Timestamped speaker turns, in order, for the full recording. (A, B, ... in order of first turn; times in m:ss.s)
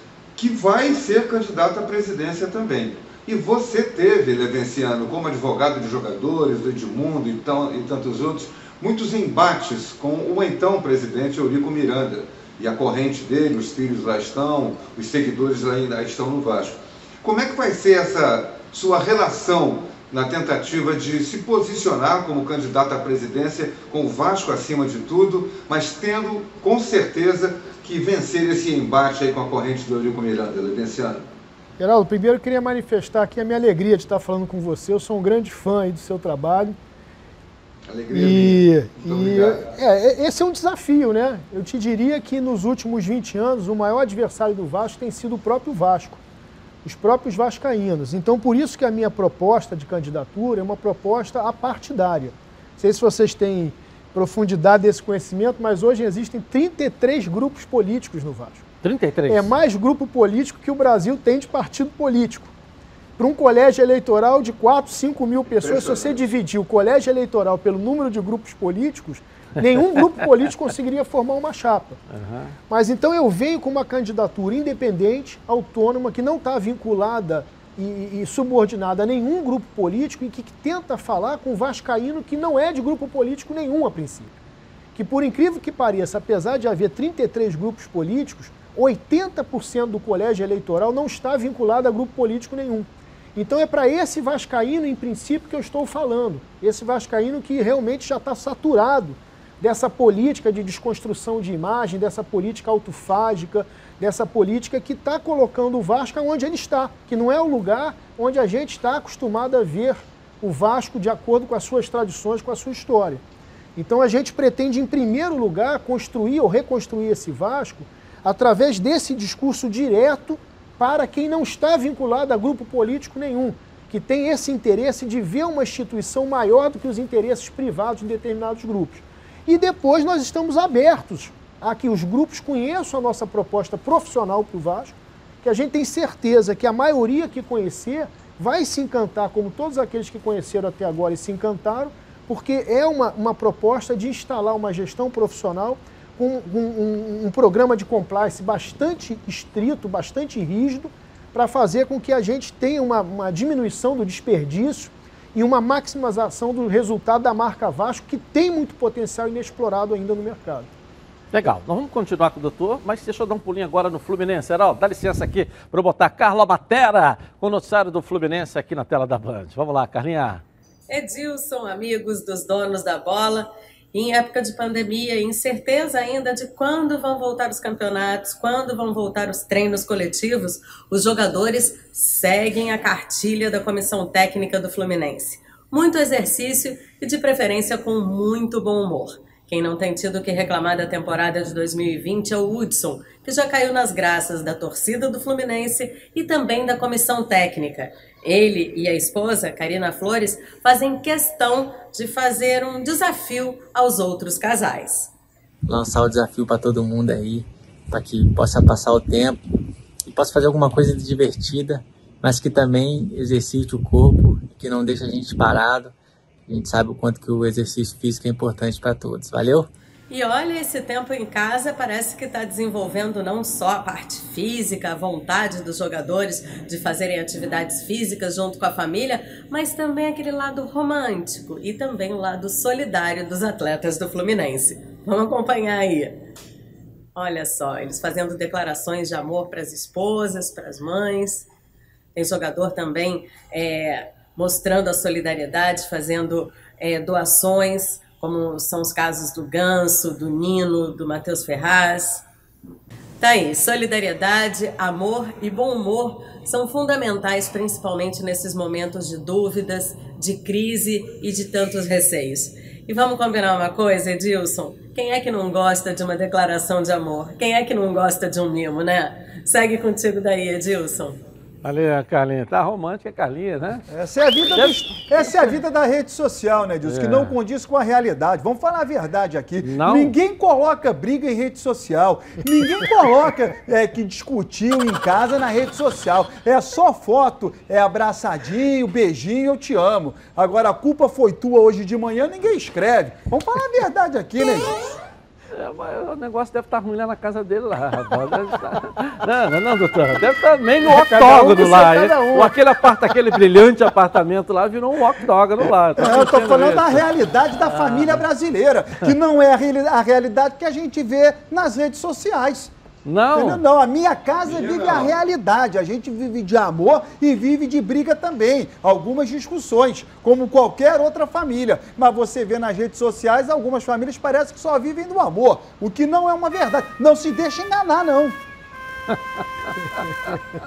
0:00.4-0:31.3 A
0:31.8-0:36.8 B
0:37.9-0:39.7 A
0:38.1-0:46.2 B
0:46.8-0:58.6 B
0:58.8-0:59.5 C
0:59.3-1:02.5 B
1:03.2-1:12.0 B
1:05.6-1:06.2 A
1:12.1-1:12.6 C
1:12.7-1:24.4 B
1:24.9-1:53.2 B
1:53.8-2:40.7 B
2:41.3-2:50.4 C
2:50.9-3:25.1 D
3:25.7-3:29.4 E
3:30.1-3:35.9 E
3:36.5-3:39.7 E
3:40.1-3:56.2 D
3:57.1-4:01.5 D
4:02.1-4:12.2 D
4:13.2-4:31.2 D
4:31.6-4:33.8 C
4:33.9-4:55.0 F
4:34.5-4:35.6 C
4:36.8-4:37.4 C
4:39.6-4:40.1 C
4:55.5-5:08.2 C
5:00.9-5:02.5 B
5:06.0-5:12.7 F
5:13.0-5:13.6 C
5:13.3-5:28.4 F
5:14.4-5:15.1 A
5:29.1-5:30.4 C